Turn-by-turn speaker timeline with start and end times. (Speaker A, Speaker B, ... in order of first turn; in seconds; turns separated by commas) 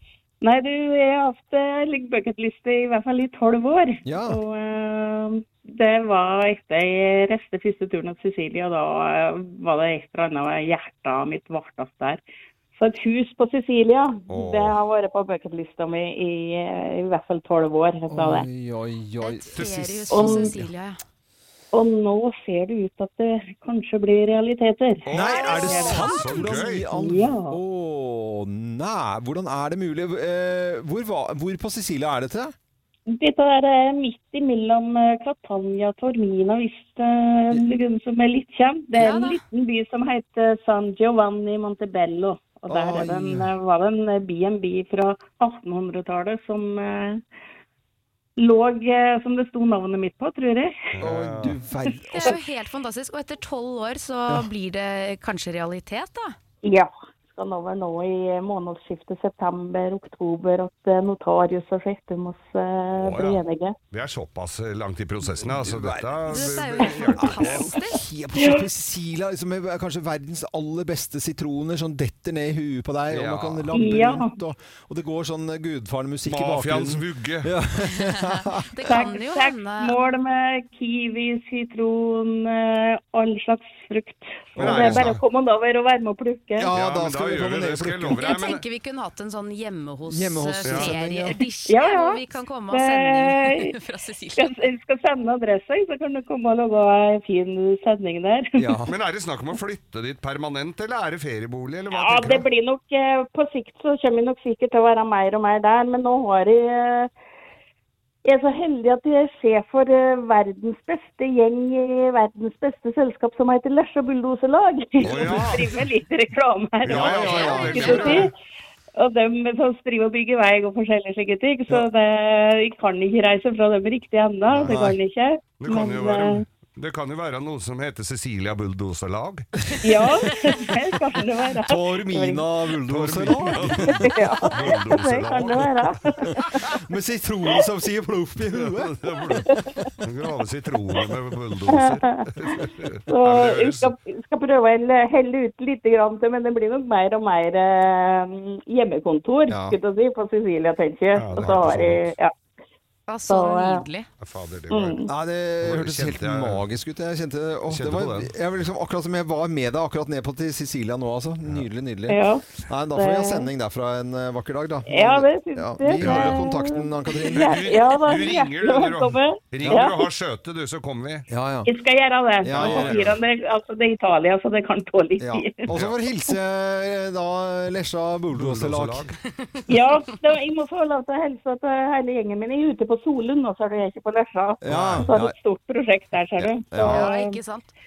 Speaker A: 0.4-12.2, Speaker B: 4.0-4.4, Speaker A: 12.8-18.5, Speaker C: 14.3-14.8, Speaker B: 18.1-20.7, Speaker D: 19.2-21.0, Speaker A: 20.1-20.5, Speaker A: 21.7-25.1, Speaker C: 25.1-26.9, Speaker B: 25.1-32.5, Speaker D: 25.2-26.2, Speaker A: 25.6-26.1, Speaker A: 26.9-27.6, Speaker A: 33.1-47.2, Speaker D: 39.0-39.4, Speaker B: 42.7-43.5, Speaker A: 48.4-50.8, Speaker C: 50.9-51.6, Speaker B: 51.0-52.4, Speaker D: 52.1-56.4, Speaker A: 56.6-63.8, Speaker C: 63.0-67.7, Speaker B: 65.3-79.0, Speaker D: 66.3-68.0, Speaker C: 73.1-73.7, Speaker A: 73.7-74.3, Speaker C: 76.3-77.5, Speaker D: 78.0-80.0, Speaker A: 78.9-86.7, Speaker B: 84.6-85.2, Speaker C: 84.6-85.2, Speaker B: 86.6-88.2, Speaker C: 86.7-88.6, Speaker D: 88.2-94.5, Speaker B: 90.1-91.4, Speaker A: 91.7-92.2, Speaker A: 92.7-93.7, Speaker A: 94.4-98.7, Speaker B: 98.6-98.9, Speaker C: 98.9-102.5, Speaker A: 101.9-107.1, Speaker A: 108.2-118.3, Speaker C: 115.0-115.7, Speaker C: 116.8-118.3, Speaker B: 116.8-118.3, Speaker A: 119.0-126.4, Speaker B: 124.6-125.0, Speaker C: 125.6-130.3, Speaker A: 129.8-132.4, Speaker B: 131.7-134.2, Speaker C: 132.9-136.0, Speaker A: 133.8-136.7, Speaker B: 136.7-138.9, Speaker C: 138.5-143.9, Speaker A: 139.5-139.9, Speaker A: 141.7-152.3, Speaker B: 149.5-149.8, Speaker C: 151.2-152.1, Speaker D: 153.1-154.1, Speaker A: 153.3-153.8, Speaker C: 154.2-155.0, Speaker A: 154.7-155.1, Speaker B: 155.1-167.6, Speaker C: 155.6-156.6, Speaker C: 157.7-158.3, Speaker A: 162.1-163.5, Speaker A: 164.9-170.1, Speaker C: 166.0-166.4, Speaker C: 167.3-171.3, Speaker B: 171.3-171.7, Speaker A: 171.7-175.6, Speaker B: 172.4-173.0, Speaker C: 172.5-173.2, Speaker B: 175.2-179.2, Speaker C: 178.3-179.1, Speaker A: 179.7-187.4, Speaker B: 184.6-185.3, Speaker C: 184.7-185.1, Speaker B: 186.7-187.1, Speaker D: 186.8-187.7